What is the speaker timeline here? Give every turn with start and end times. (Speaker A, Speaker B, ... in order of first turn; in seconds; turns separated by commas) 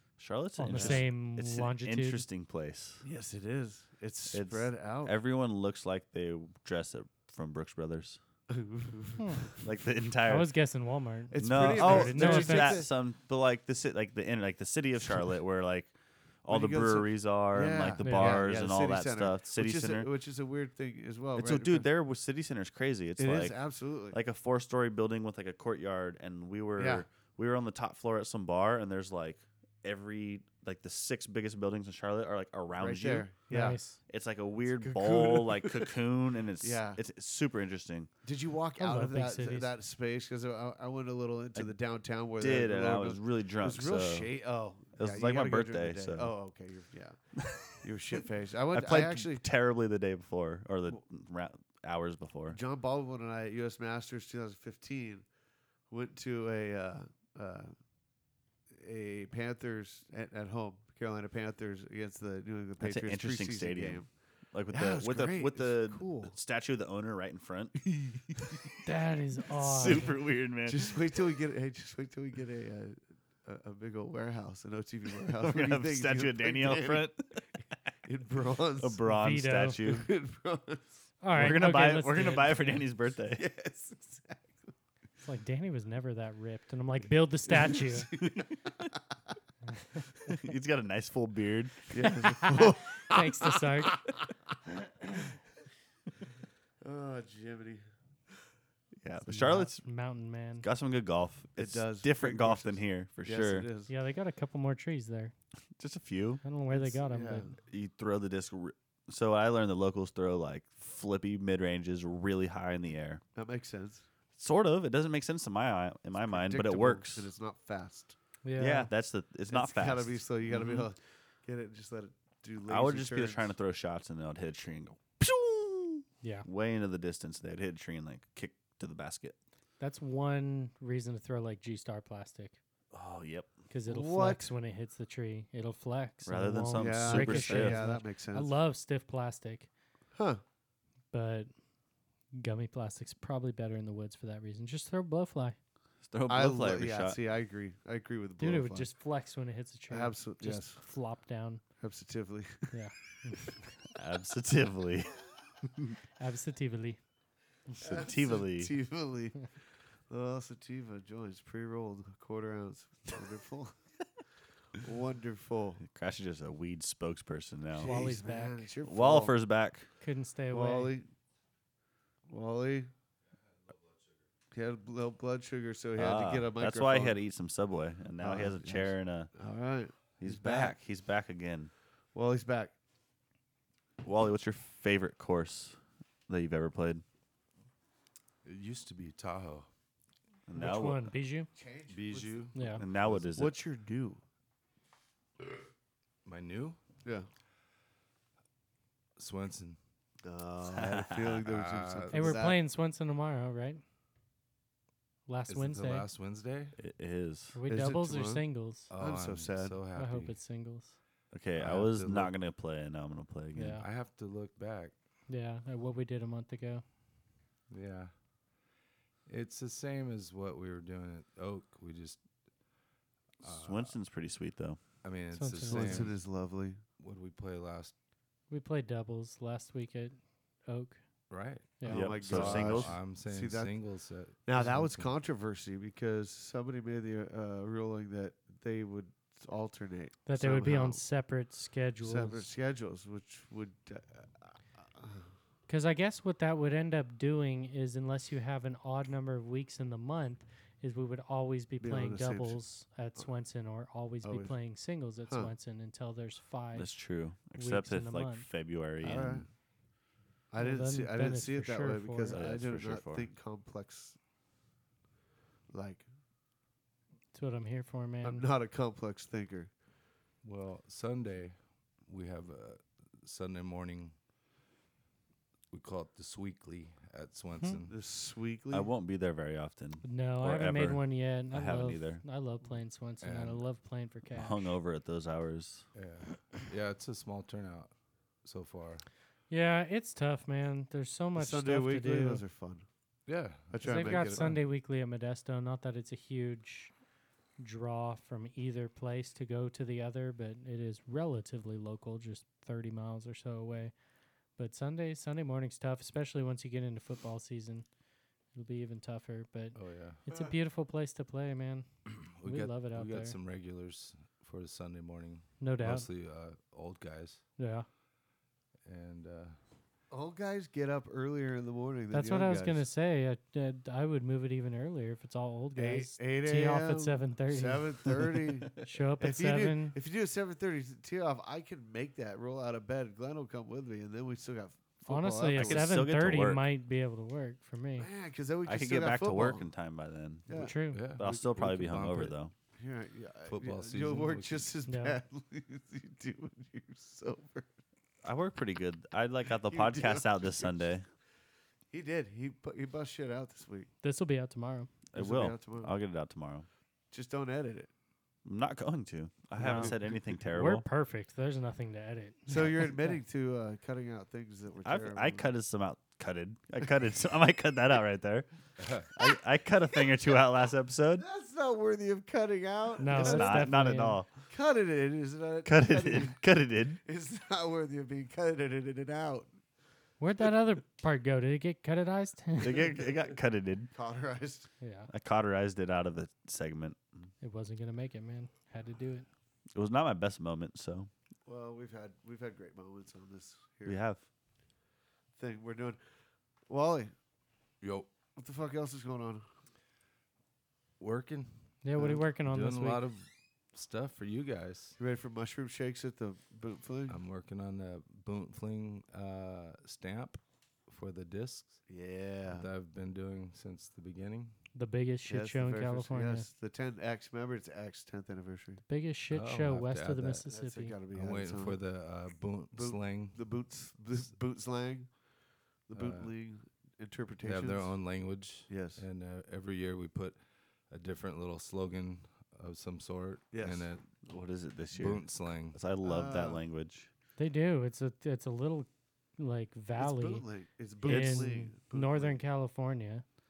Speaker A: 0.2-3.0, Speaker B: 0.6-2.2, Speaker C: 0.7-1.0, Speaker C: 3.0-5.1, Speaker A: 4.3-8.2, Speaker C: 8.5-9.6, Speaker B: 9.2-9.4, Speaker A: 9.6-10.5, Speaker B: 10.3-12.8, Speaker C: 11.3-12.9, Speaker A: 11.4-15.9, Speaker A: 16.4-20.1, Speaker C: 16.5-21.9, Speaker B: 18.0-18.4, Speaker A: 21.4-33.3, Speaker C: 23.2-24.2, Speaker C: 26.8-27.1, Speaker C: 32.8-33.8, Speaker B: 33.5-34.0, Speaker A: 34.1-38.1, Speaker C: 34.7-36.0, Speaker C: 36.6-37.0, Speaker C: 38.2-49.5, Speaker B: 38.8-39.7, Speaker A: 42.4-44.3, Speaker A: 45.0-46.3, Speaker A: 47.4-47.8, Speaker A: 48.7-52.6, Speaker C: 52.5-55.3, Speaker C: 55.9-57.8, Speaker C: 58.7-64.1, Speaker A: 62.8-67.8, Speaker C: 64.7-66.3, Speaker C: 67.9-68.7, Speaker B: 68.8-70.1, Speaker A: 69.6-71.0, Speaker C: 69.8-70.1, Speaker C: 70.7-77.1, Speaker A: 75.3-77.5, Speaker C: 78.0-79.1, Speaker A: 78.8-80.1, Speaker B: 79.1-79.8, Speaker C: 79.8-80.8, Speaker B: 81.2-82.7, Speaker A: 81.3-83.5, Speaker C: 83.3-84.7, Speaker B: 85.2-88.1, Speaker C: 87.5-89.0, Speaker A: 90.3-92.8, Speaker C: 91.9-94.5, Speaker B: 92.5-94.0, Speaker C: 95.0-95.4, Speaker C: 96.8-97.8, Speaker A: 99.0-99.9, Speaker B: 99.3-100.7, Speaker A: 100.6-103.7, Speaker C: 101.6-103.9, Speaker B: 103.9-105.3, Speaker A: 105.8-106.4, Speaker B: 106.4-107.5, Speaker C: 106.7-107.6, Speaker A: 107.7-113.2, Speaker C: 113.3-114.1, Speaker A: 114.4-117.3, Speaker C: 116.2-118.2, Speaker B: 118.4-118.9, Speaker A: 118.6-120.9, Speaker C: 119.5-123.5, Speaker A: 122.7-129.3, Speaker B: 126.2-126.5, Speaker B: 129.8-132.6, Speaker A: 132.9-133.5, Speaker B: 133.7-139.7, Speaker C: 133.9-134.5, Speaker A: 136.2-137.8, Speaker C: 136.8-138.5, Speaker C: 140.2-140.4, Speaker B: 141.1-141.5, Speaker B: 142.3-145.6, Speaker A: 146.1-147.2, Speaker C: 146.3-148.9, Speaker B: 148.4-151.6, Speaker C: 149.9-150.8, Speaker C: 151.8-152.8, Speaker B: 152.7-153.6, Speaker A: 153.9-155.9, Speaker B: 156.2-157.0, Speaker A: 157.8-158.8, Speaker C: 157.8-159.5, Speaker C: 160.1-163.7, Speaker C: 164.8-165.8, Speaker A: 165.9-168.0, Speaker C: 167.8-169.3, Speaker B: 167.8-168.7, Speaker A: 168.8-169.9, Speaker B: 170.0-170.9, Speaker C: 170.5-171.1, Speaker C: 172.3-172.9, Speaker C: 174.5-177.2, Speaker A: 176.0-179.3, Speaker C: 178.2-180.8, Speaker A: 180.2-181.7, Speaker C: 182.1-182.7, Speaker A: 184.0-185.8, Speaker A: 186.3-187.0, Speaker D: 188.4-189.7, Speaker A: 190.5-191.1, Speaker B: 190.5-191.5, Speaker C: 191.5-192.5, Speaker D: 191.9-193.3, Speaker B: 192.5-192.8, Speaker A: 192.8-193.5, Speaker C: 193.3-194.2, Speaker D: 196.2-196.8, Speaker D: 199.2-199.8, Speaker C: 200.2-202.6, Speaker A: 200.8-201.5, Speaker D: 201.5-202.4, Speaker B: 202.1-203.8, Speaker B: 205.3-206.1, Speaker D: 205.5-206.8, Speaker A: 206.8-207.6, Speaker B: 207.5-208.9, Speaker C: 207.7-208.5, Speaker D: 208.9-210.4, Speaker C: 209.0-209.8, Speaker B: 209.9-211.0, Speaker A: 211.3-213.8, Speaker D: 211.6-212.3, Speaker B: 213.6-213.8, Speaker D: 213.7-214.9, Speaker B: 215.3-216.8, Speaker D: 217.7-218.1, Speaker D: 219.3-222.2, Speaker D: 223.4-223.9, Speaker A: 223.4-224.8, Speaker D: 225.0-226.2, Speaker B: 225.3-226.1, Speaker C: 225.7-226.8, Speaker D: 227.0-227.9, Speaker B: 228.5-231.0, Speaker D: 231.3-235.1, Speaker B: 231.8-232.1, Speaker C: 231.9-233.8, Speaker A: 231.9-233.0, Speaker C: 234.4-241.0, Speaker B: 240.3-242.5, Speaker C: 242.0-245.3, Speaker B: 245.7-256.9, Speaker C: 251.8-252.6, Speaker C: 254.2-254.6, Speaker C: 255.3-255.5, Speaker A: 256.7-259.4, Speaker B: 257.6-258.5, Speaker C: 259.0-259.5, Speaker C: 260.5-264.2, Speaker B: 260.6-262.4, Speaker A: 262.3-263.3, Speaker C: 265.7-266.1, Speaker B: 267.3-268.4, Speaker C: 268.2-269.7, Speaker D: 270.4-274.1, Speaker D: 275.7-278.0, Speaker C: 277.9-278.9, Speaker A: 278.7-282.2, Speaker B: 280.0-284.8, Speaker D: 283.2-283.6, Speaker A: 284.3-285.9, Speaker D: 285.9-287.9, Speaker D: 288.4-289.1, Speaker B: 289.5-292.4, Speaker C: 291.4-292.9, Speaker D: 293.3-294.6, Speaker C: 293.7-294.6, Speaker B: 293.8-296.9, Speaker B: 297.6-303.9, Speaker B: 304.6-307.9, Speaker B: 308.5-311.9, Speaker D: 309.8-310.2, Speaker C: 310.3-310.5, Speaker D: 312.1-317.4, Speaker B: 312.4-313.4, Speaker B: 315.6-316.1, Speaker B: 317.6-317.9, Speaker D: 318.9-319.6, Speaker C: 320.1-322.9, Speaker B: 322.1-330.0, Speaker C: 325.8-335.9, Speaker B: 335.1-338.1, Speaker A: 335.6-336.6, Speaker C: 338.0-339.7, Speaker A: 338.7-340.5, Speaker C: 340.5-340.8, Speaker B: 340.5-341.0, Speaker D: 340.9-342.4, Speaker A: 341.1-342.5, Speaker C: 342.8-347.7, Speaker D: 343.5-344.7, Speaker B: 344.9-345.2, Speaker A: 348.2-351.1, Speaker C: 349.6-350.8, Speaker C: 351.9-353.9, Speaker B: 354.0-354.9, Speaker A: 355.1-356.7, Speaker C: 355.1-355.9, Speaker C: 357.1-357.9, Speaker A: 358.4-360.9, Speaker C: 359.6-360.1, Speaker B: 359.6-359.9, Speaker B: 360.5-363.2, Speaker C: 362.5-365.5, Speaker A: 364.8-368.5, Speaker D: 368.8-369.1, Speaker A: 369.1-371.3, Speaker C: 371.2-373.7, Speaker B: 373.0-374.2, Speaker A: 373.1-374.3, Speaker C: 374.5-376.4, Speaker A: 375.6-377.0, Speaker C: 377.1-379.5, Speaker B: 380.2-382.9, Speaker A: 382.6-383.9, Speaker C: 383.9-384.7, Speaker B: 384.8-385.1, Speaker A: 385.1-387.0, Speaker B: 387.4-389.3, Speaker A: 389.8-391.1, Speaker C: 391.5-394.0, Speaker A: 393.9-394.2, Speaker C: 395.4-396.0, Speaker C: 396.7-397.1, Speaker D: 397.8-398.1, Speaker C: 398.4-399.5, Speaker D: 401.0-405.0, Speaker B: 401.8-403.0, Speaker C: 405.0-407.2, Speaker D: 407.1-411.9, Speaker C: 411.9-412.7, Speaker D: 412.5-414.6, Speaker B: 414.7-416.5, Speaker C: 415.3-418.8, Speaker B: 418.9-421.0, Speaker D: 419.3-420.5, Speaker C: 420.5-421.8, Speaker D: 421.1-423.4, Speaker C: 422.7-425.1, Speaker C: 425.9-428.0, Speaker D: 425.9-426.3, Speaker D: 427.4-430.4, Speaker C: 428.7-429.1, Speaker D: 430.9-434.2, Speaker C: 433.5-433.9, Speaker A: 434.2-437.1, Speaker D: 434.9-435.8, Speaker C: 436.0-436.6, Speaker B: 437.4-440.4, Speaker C: 440.0-442.4, Speaker B: 441.0-443.2, Speaker A: 441.1-441.5